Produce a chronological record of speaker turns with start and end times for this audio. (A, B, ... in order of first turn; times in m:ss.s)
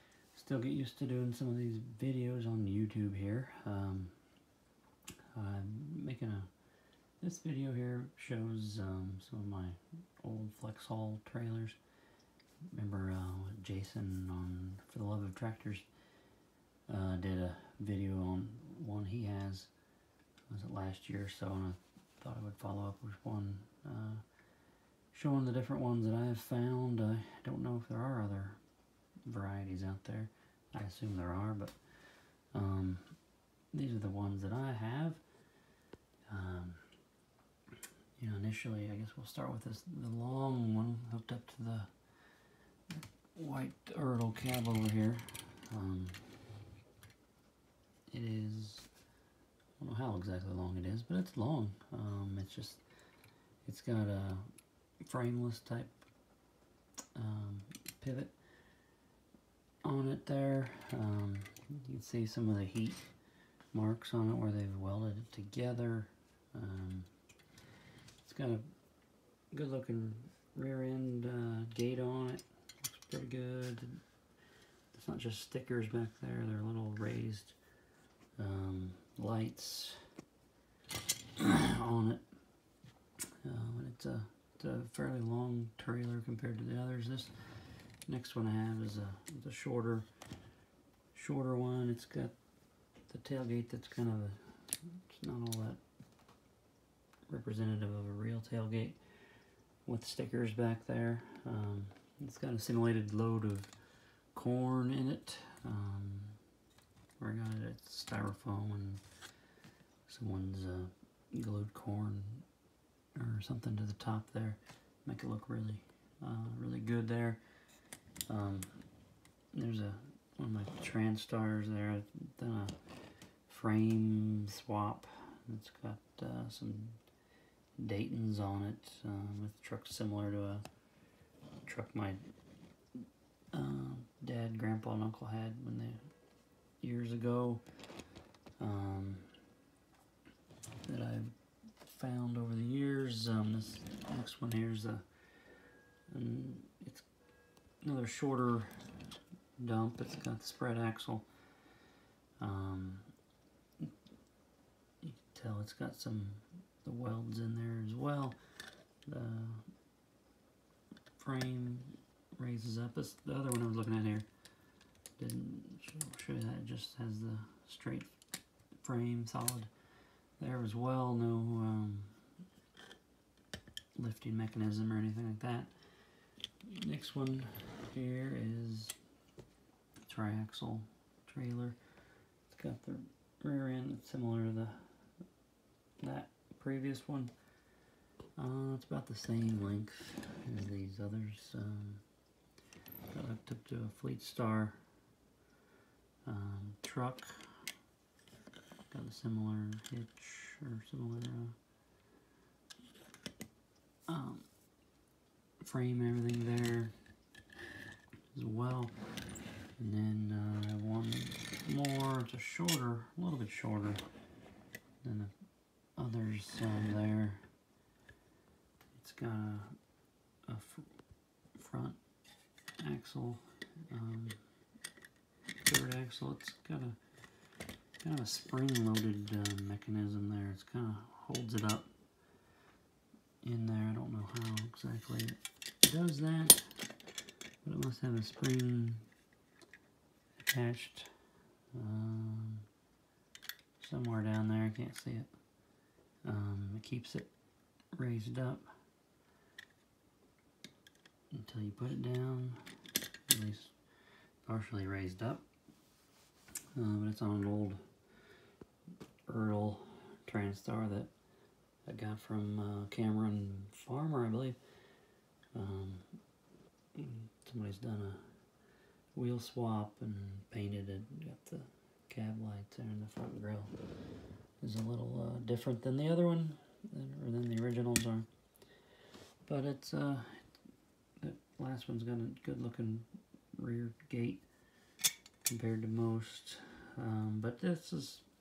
0:00.3-0:04.2 A
0:05.3-0:06.5 A
0:07.2-0:11.8 A
0:12.7-0:15.9 A
0:16.9-0:19.7 A
0:20.5-0:24.2 A
0:25.1-0:28.6 A
0:29.3-0:31.8 A
0:32.5-0:33.2 A
0:33.7-0:35.2 A
0:36.3-0:36.8 A
0:38.2-0:41.9 A
0:42.9-0:46.2 A
0:48.1-0:48.9 A
0:49.8-0:52.8 A
0:53.6-0:54.5 A
0:55.0-0:55.9 A
0:57.2-0:58.4 A
0:59.8-1:03.1 A
1:03.7-1:07.1 A
1:08.2-1:08.7 A
1:09.5-1:14.0 A
1:14.9-1:17.6 A
1:18.4-1:20.1 A
1:21.4-1:22.3 A
1:23.4-1:30.1 A
1:31.1-1:32.4 A
1:33.1-1:35.8 A
1:37.3-1:39.0 A
1:39.8-1:43.7 A
1:44.3-1:46.4 A
1:47.2-1:49.0 A
1:50.1-1:52.4 A
1:53.2-1:57.4 A
1:58.3-1:58.8 A
1:59.5-2:02.8 A
2:03.5-2:07.0 A
2:07.8-2:10.7 A
2:11.7-2:12.2 A
2:13.5-2:16.1 A
2:16.8-2:17.6 A
2:18.6-2:19.4 A
2:20.8-2:25.1 A
2:26.1-2:27.1 A
2:27.8-2:28.8 A
2:29.6-2:31.3 A
2:32.4-2:33.1 A
2:35.0-2:38.4 A
2:39.0-2:39.7 A
2:41.2-2:44.3 A
2:45.2-2:48.2 A
2:48.8-2:49.7 A
2:50.4-2:52.3 A
2:54.0-2:55.7 A
2:56.6-2:59.0 A
3:00.0-3:01.8 A
3:02.5-3:04.9 A
3:06.0-3:07.3 A
3:08.4-3:12.0 A
3:13.1-3:14.8 A
3:16.2-3:17.6 A
3:18.9-3:21.6 A
3:24.1-3:24.5 A
3:25.6-3:26.9 A
3:28.3-3:29.0 A
3:29.8-3:34.0 A
3:35.0-3:35.3 A
3:36.0-3:37.5 A
3:39.0-3:39.8 A
3:40.5-3:40.9 A
3:41.5-3:42.0 A
3:42.8-3:44.4 A
3:45.6-3:47.0 A
3:48.0-3:51.9 A
3:53.4-3:56.7 A
3:57.6-3:59.1 A
4:00.4-4:01.1 A
4:01.7-4:02.7 A
4:03.8-4:05.3 A
4:06.2-4:07.3 A
4:08.0-4:08.7 A
4:11.3-4:12.6 A
4:13.3-4:13.8 A
4:14.4-4:15.4 A
4:16.8-4:17.8 A
4:19.3-4:21.1 A
4:21.8-4:24.6 A
4:25.6-4:26.2 A
4:27.0-4:28.3 A
4:29.2-4:33.8 A
4:34.6-4:38.3 A
4:39.4-4:40.5 A
4:41.2-4:44.4 A
4:45.4-4:48.2 A